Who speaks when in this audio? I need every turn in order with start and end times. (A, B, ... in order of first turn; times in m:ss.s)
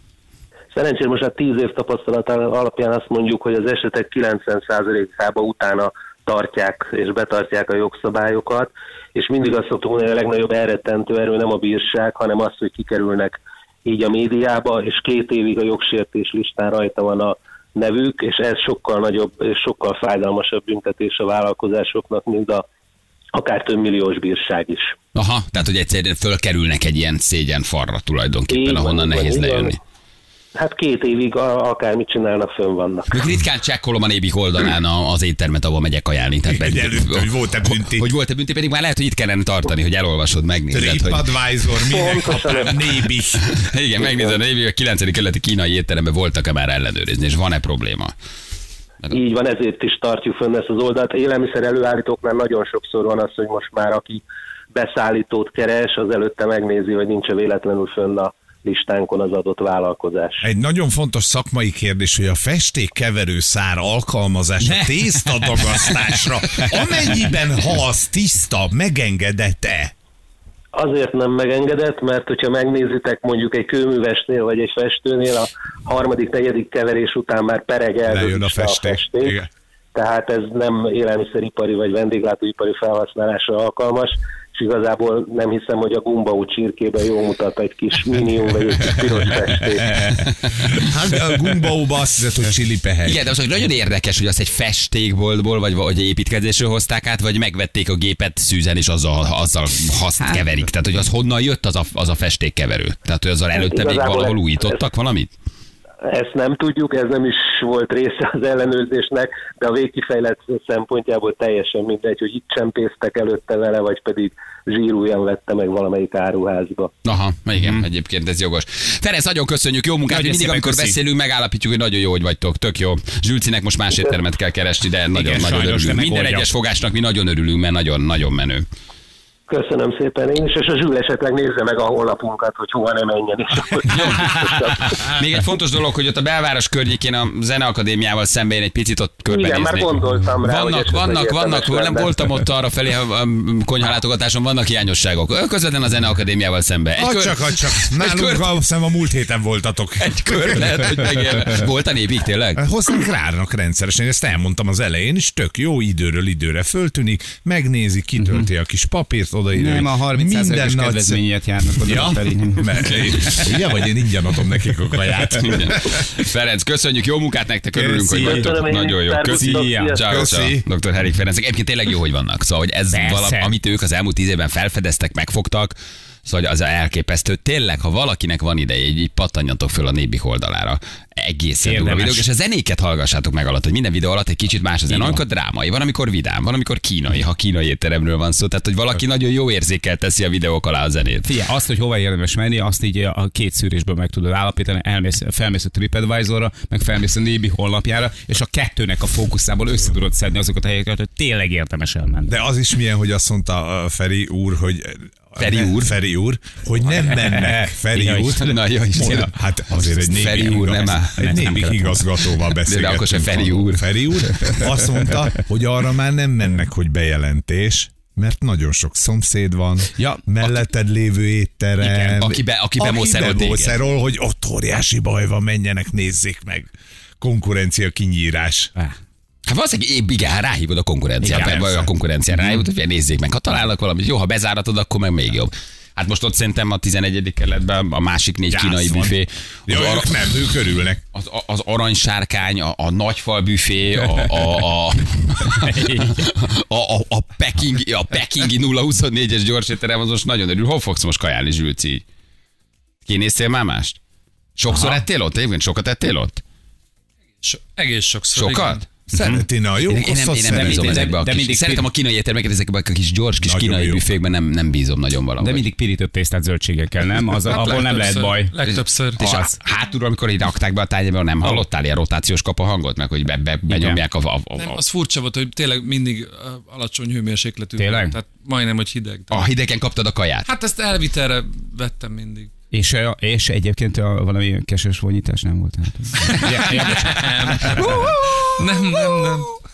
0:00.7-0:22.6 A
0:23.3-0:24.9 A
0:25.1-0:29.8 B
0:28.5-0:29.8 A
0:30.5-0:33.1 A
0:33.1-0:41.7 B
0:36.4-0:38.0 C
0:40.7-0:43.4 C
0:41.9-0:43.0 A
0:43.4-0:48.1 B
0:44.0-0:44.4 A
0:49.1-1:00.4 A
1:00.4-1:09.9 C
1:04.6-1:06.7 D
1:10.7-1:19.4 A
1:18.0-1:19.5 C
1:19.9-1:30.0 A
1:30.7-1:33.2 C
1:33.0-1:45.3 B
1:43.5-1:44.8 A
1:46.0-1:56.9 A
1:57.0-2:08.6 B
2:00.1-2:01.0 D
2:05.1-2:06.5 D
2:09.5-2:15.0 A
2:13.9-2:14.4 B
2:14.9-2:28.5 B
2:19.3-2:22.1 A
2:27.0-2:30.9 C
2:30.0-2:32.7 B
2:32.6-2:41.2 C
2:38.2-2:38.5 D
2:39.5-2:43.3 D
2:41.8-2:45.9 C
2:42.8-2:43.4 B
2:44.9-3:11.3 B
2:47.7-2:48.5 D
2:48.2-2:50.0 A
2:49.3-2:50.0 D
2:50.0-2:50.6 C
2:52.9-2:53.6 D
3:01.6-3:02.3 D
3:04.9-3:05.2 D
3:11.2-3:22.3 D
3:22.3-3:46.7 C
3:25.4-3:26.0 B
3:26.9-3:32.0 D
3:28.2-3:29.3 B
3:30.0-3:31.2 B
3:32.6-3:34.6 B
3:41.8-3:42.2 D
3:42.2-3:43.8 B
3:47.2-3:48.7 C
3:49.5-4:00.3 B
3:51.2-3:51.6 D
3:51.3-3:51.9 C
3:58.5-3:59.1 D
3:59.7-4:01.0 C
4:01.1-4:12.0 B
4:05.5-4:06.1 D
4:13.0-4:14.0 B
4:14.6-4:16.4 B
4:17.4-4:18.9 E
4:18.3-4:19.3 B
4:19.1-4:19.4 D
4:19.2-4:21.1 C
4:19.8-4:25.7 B
4:20.5-4:21.9 D
4:23.4-4:24.0 C
4:25.4-4:28.5 D
4:27.4-4:29.4 E
4:28.6-4:34.8 B
4:29.2-4:29.5 D
4:33.7-4:34.0 D
4:34.6-4:39.5 E
4:37.8-4:38.2 D
4:39.3-4:40.5 B
4:40.4-4:42.5 E
4:42.7-4:47.8 D
4:46.3-4:46.6 B
4:46.6-4:49.6 E
4:47.7-4:48.5 B